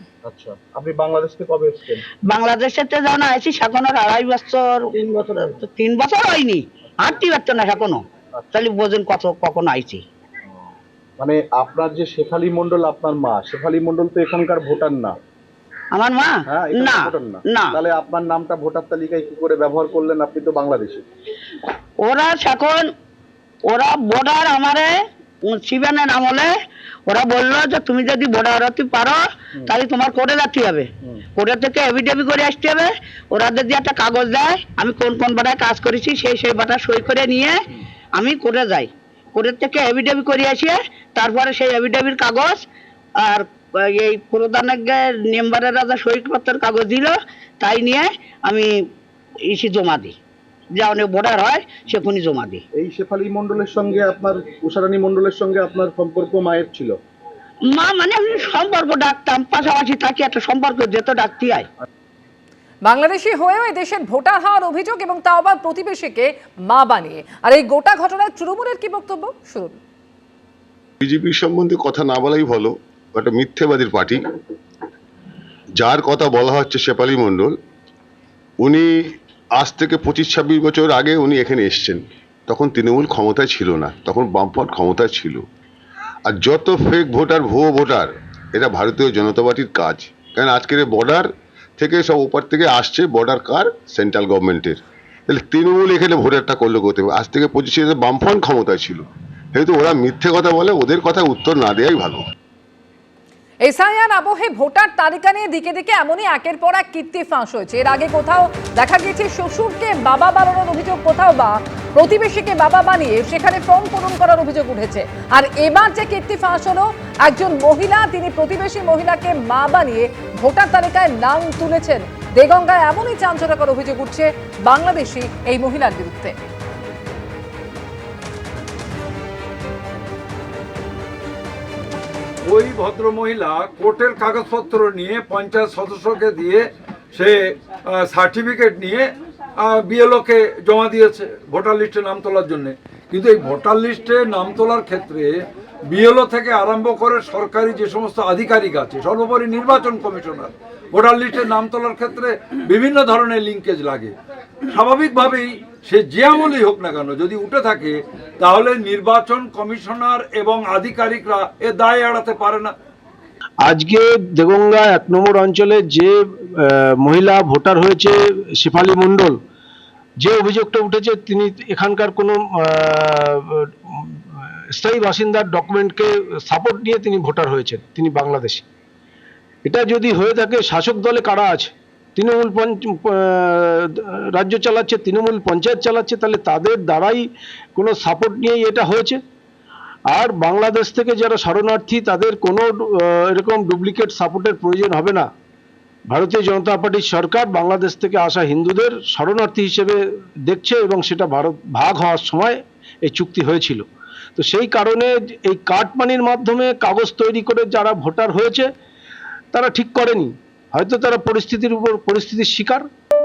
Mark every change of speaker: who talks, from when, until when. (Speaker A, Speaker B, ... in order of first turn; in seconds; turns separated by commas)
Speaker A: 0.2-2.0, Speaker B: 2.3-10.0, Speaker A: 11.2-15.2, Speaker B: 15.9-17.8, Speaker A: 16.5-21.0, Speaker B: 22.0-22.9, Speaker B: 23.6-26.5, Speaker B: 27.1-37.6, Speaker B: 38.1-42.6, Speaker B: 43.2-48.7, Speaker B: 49.5-50.1, Speaker B: 50.7-52.6, Speaker A: 52.7-57.0, Speaker B: 57.7-61.7, Speaker C: 62.8-69.8, Speaker D: 71.0-74.2, Speaker D: 75.8-77.5, Speaker D: 78.6-85.4, Speaker D: 86.2-102.2, Speaker C: 103.6-126.3, Speaker E: 132.5-154.1, Speaker E: 154.7-162.7, Speaker F: 163.6-169.4, Speaker F: 170.2-178.6, Speaker F: 179.6-189.2, Speaker F: 190.1-195.3, Speaker F: 196.1-208.7, Speaker F: 209.5-212.9